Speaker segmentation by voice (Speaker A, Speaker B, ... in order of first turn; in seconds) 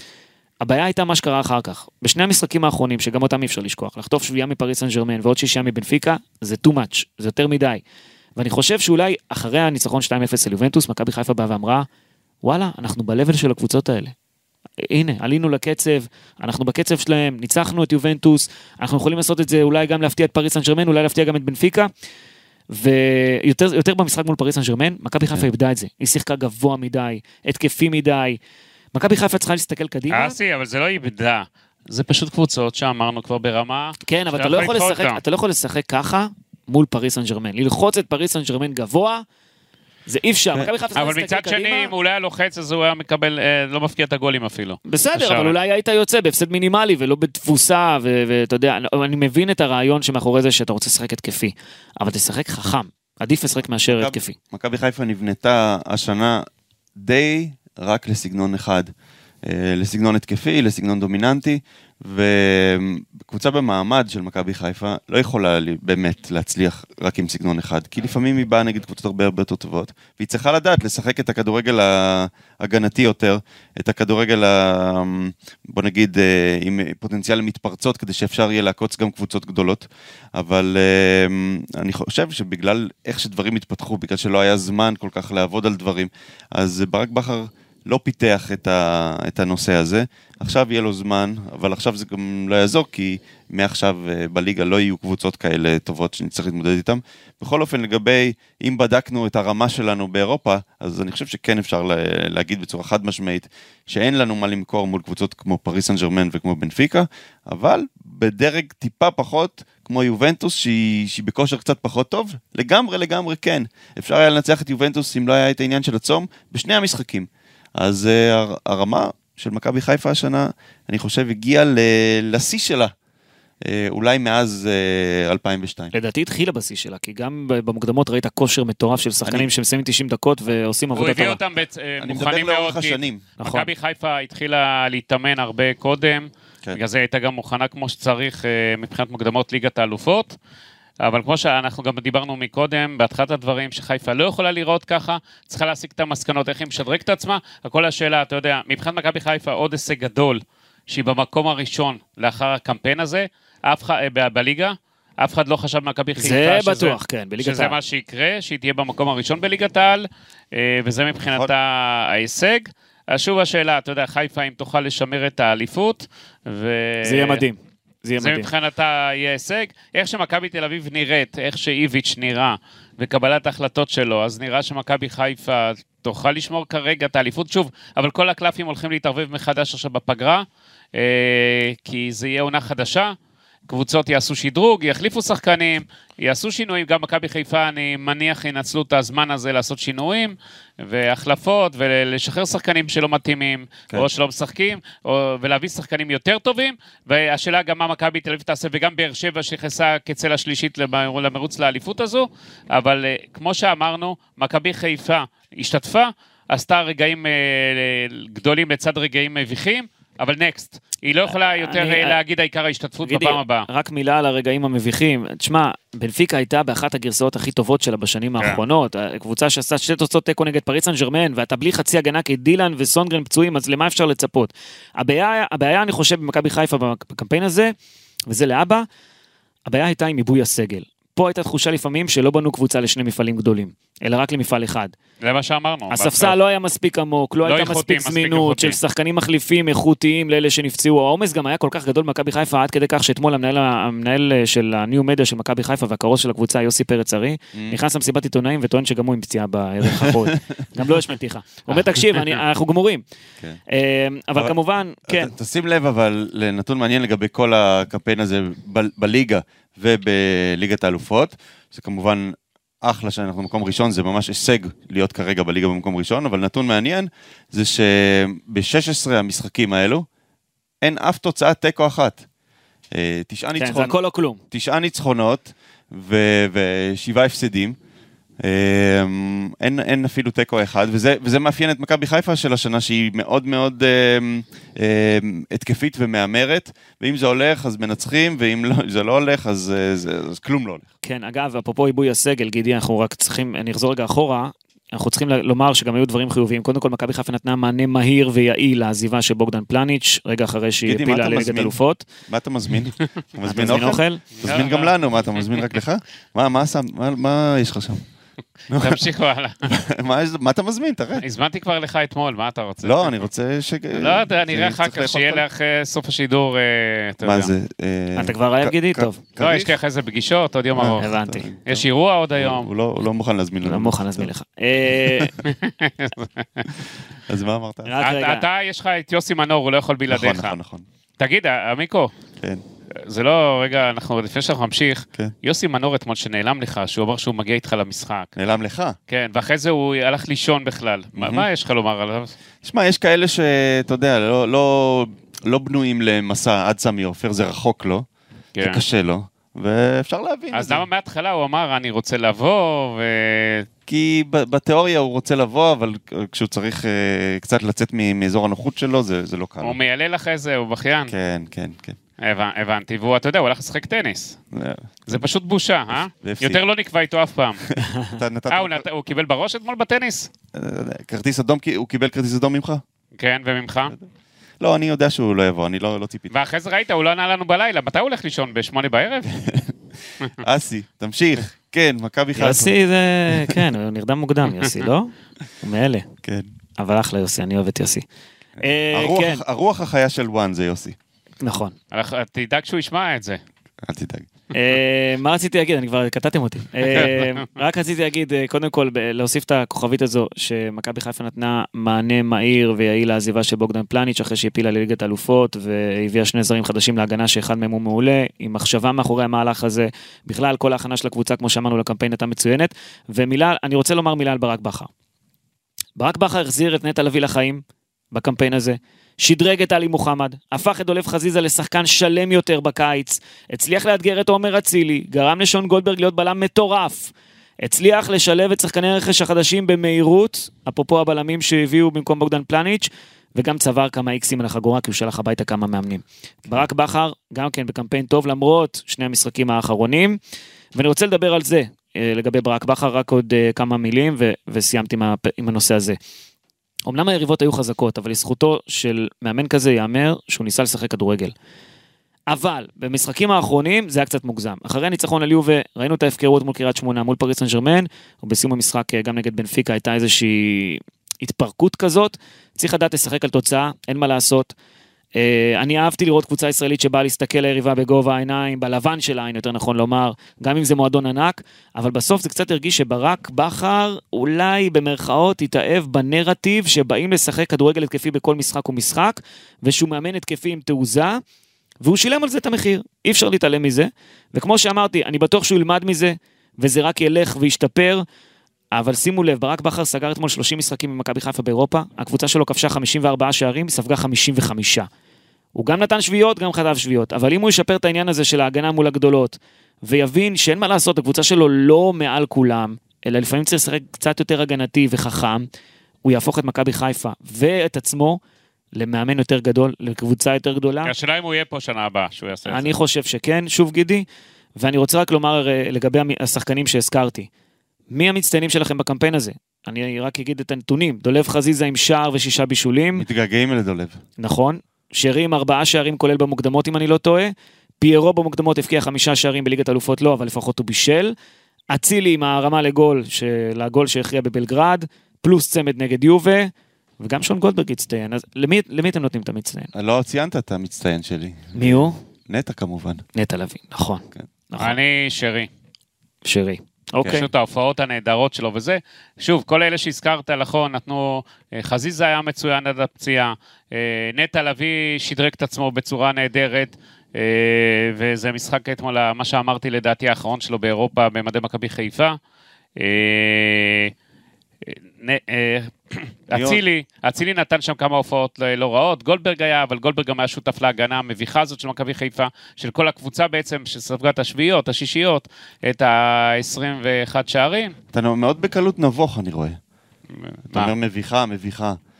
Speaker A: 0.6-7.8, 8.4-11.9, 12.4-14.1, 14.9-21.9, 22.7-28.4, 28.9-30.4, 34.1-39.2, 40.1-41.9, 44.9-54.4, 125.9-131.4, 133.4-133.7, 156.2-157.8, 167.0-168.5, 211.5-212.2, 213.0-227.7, 228.3-228.9, 229.7-234.9, 235.9-253.0, 253.7-255.3, 273.6-274.4, 291.0-302.0, 303.5-304.2, 318.2-319.2, 321.0-321.5, 323.6-325.3, 327.9-328.4, 382.4-386.1, 386.8-388.1, 388.6-389.4, 391.4-391.8, 394.5-414.9, 416.0-427.1, 427.6-440.2, 440.8-446.0, 446.9-451.3, 452.3-464.5, 465.2-481.2, 481.8-488.0, 488.7-494.9, 495.6-505.5, 506.1-508.2, 508.8-510.9, 512.5-514.1, 514.6-517.3, 517.9-523.0, 524.2-531.1, 531.7-539.7, 541.5-542.0, 543.1-544.8, 546.3-547.2
Speaker B: 30.1-35.2, 41.0-45.5, 131.0-140.4, 141.0-167.4, 168.2-183.1, 183.7-213.7, 235.2-236.4, 237.4-238.8, 304.4-305.6, 308.8-309.6, 311.2-313.2, 314.0-317.5, 319.4-322.7, 325.4-326.7, 328.0-330.6, 331.2-332.1, 333.0-338.3, 339.1-342.3, 348.6-348.8, 350.5-353.7, 359.6-361.1, 362.2-364.4, 365.1-367.7, 368.5-370.3, 373.2-373.9, 376.3-379.3, 391.9-393.4, 397.0-397.3, 510.9-512.7, 544.6-545.5, 547.1-562.2, 562.8-563.9, 564.6-577.8, 580.1-580.7
Speaker C: 53.9-56.5, 57.0-58.9, 59.4-122.9, 123.7-125.9, 132.0-133.2, 161.3-161.5, 247.5-247.8, 250.0-250.4, 255.1-270.1, 270.8-272.2, 272.9-274.0, 274.5-277.8, 278.4-290.9, 300.9-308.0, 308.7-309.0, 309.7-311.2, 312.8-315.4, 317.2-319.8, 320.7-321.9, 322.4-324.3, 325.0-325.3, 327.3-327.9, 330.1-330.9, 338.4-339.0, 341.2-341.5, 342.6-348.1, 348.6-350.9, 353.9-359.8, 361.1-362.0, 364.5-365.2, 365.9-366.6, 368.0-368.9, 370.5-372.8, 374.6-376.4, 379.3-382.7, 383.3-383.6, 388.9-391.0, 393.8-394.3, 523.0-524.0, 539.7-543.0, 566.3-566.6, 577.9-579.6, 580.5-581.8